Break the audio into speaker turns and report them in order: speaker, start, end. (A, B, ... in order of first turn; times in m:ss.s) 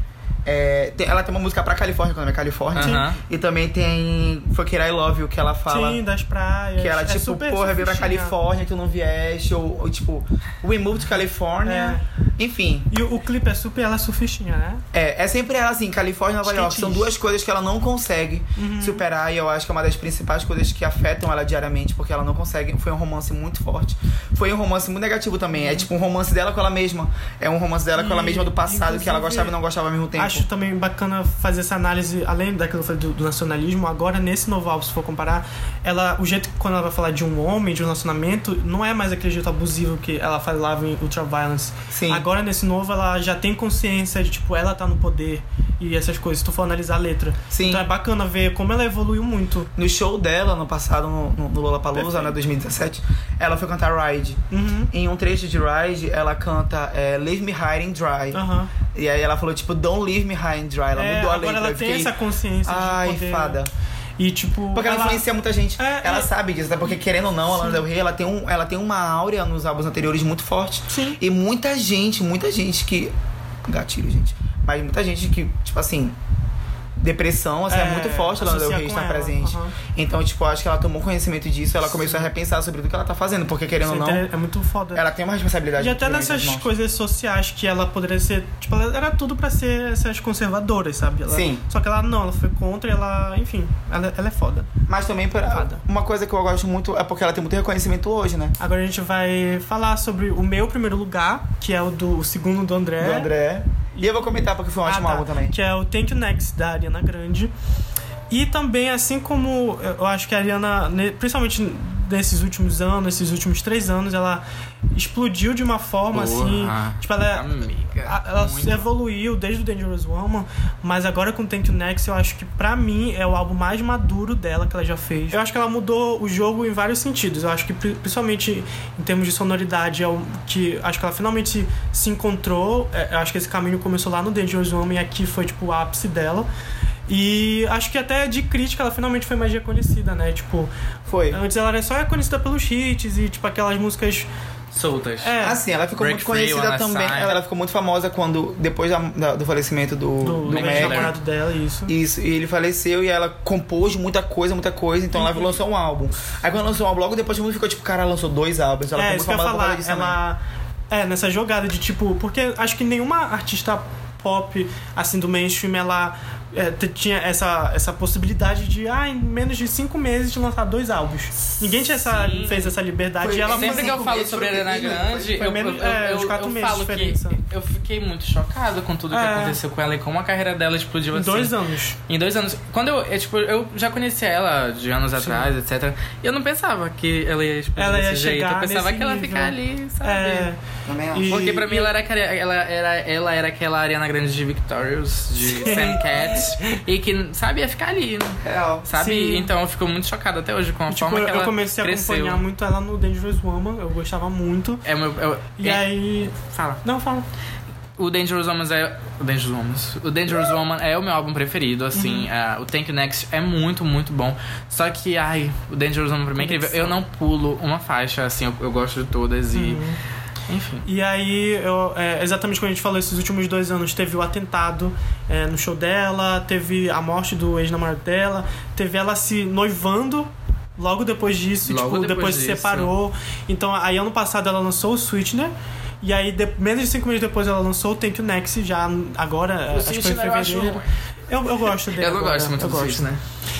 0:00.4-0:06.0 A
0:02.7-0:03.2 B
0:02.8-0:03.1 C
0:05.7-0:08.4 C
0:06.8-0:12.9 A
0:11.6-0:12.0 C
0:12.9-0:14.8 C
0:14.9-0:30.4 A
0:16.4-0:17.1 C
0:18.6-0:19.0 C
0:25.6-0:25.8 C
0:27.9-0:29.5 C
0:30.1-0:49.7 C
0:41.9-0:42.2 A
0:47.5-0:47.8 A
0:49.8-1:02.1 A
0:52.0-0:52.3 C
0:54.5-0:54.9 C
0:58.3-0:58.7 C
1:01.0-1:03.6 C
1:02.6-1:03.7 A
1:04.2-1:05.2 C
1:04.7-1:13.1 A
1:05.8-1:06.3 C
1:07.5-1:07.8 C
1:10.9-1:11.2 C
1:13.6-1:16.2 A
1:17.0-1:24.3 A
1:17.7-1:19.7 C
1:21.9-1:22.2 C
1:23.8-1:25.0 C
1:24.9-1:26.6 A
1:25.8-1:34.7 C
1:31.3-1:31.6 A
1:34.9-1:38.6 A
1:35.5-1:35.8 C
1:38.6-1:43.3 C
1:43.0-1:45.6 A
1:44.0-1:44.3 C
1:44.8-1:47.5 C
1:48.3-2:16.5 C
1:56.1-1:58.8 B
2:17.1-2:20.7 C
2:21.1-2:21.4 A
2:21.3-2:24.3 C
2:24.7-2:25.3 B
2:25.2-2:25.6 C
2:25.4-2:31.1 A
2:26.0-2:27.3 B
2:30.2-2:31.9 C
2:30.5-2:31.1 B
2:31.9-2:40.2 A
2:35.1-2:35.5 C
2:38.9-2:54.1 C
2:51.7-2:52.7 B
2:53.2-2:55.3 A
2:53.5-3:01.5 B
2:55.1-2:57.4 C
2:59.1-2:59.6 C
3:01.1-3:02.0 C
3:02.1-3:10.5 B
3:05.2-3:05.5 C
3:07.8-3:10.6 C
3:10.8-3:11.4 A
3:11.1-3:11.9 C
3:11.3-3:22.4 B
3:15.4-3:16.8 C
3:18.4-3:18.9 A
3:19.0-3:19.5 C
3:20.9-3:24.8 C
3:24.8-3:26.8 B
3:25.6-3:27.2 C
3:28.0-3:39.8 B
3:31.9-3:32.3 C
3:36.4-3:37.0 C
3:39.5-3:40.0 C
3:40.5-3:40.8 B
3:40.8-4:03.1 C
3:51.7-3:52.9 B
3:59.7-4:00.9 B
4:01.8-4:03.2 B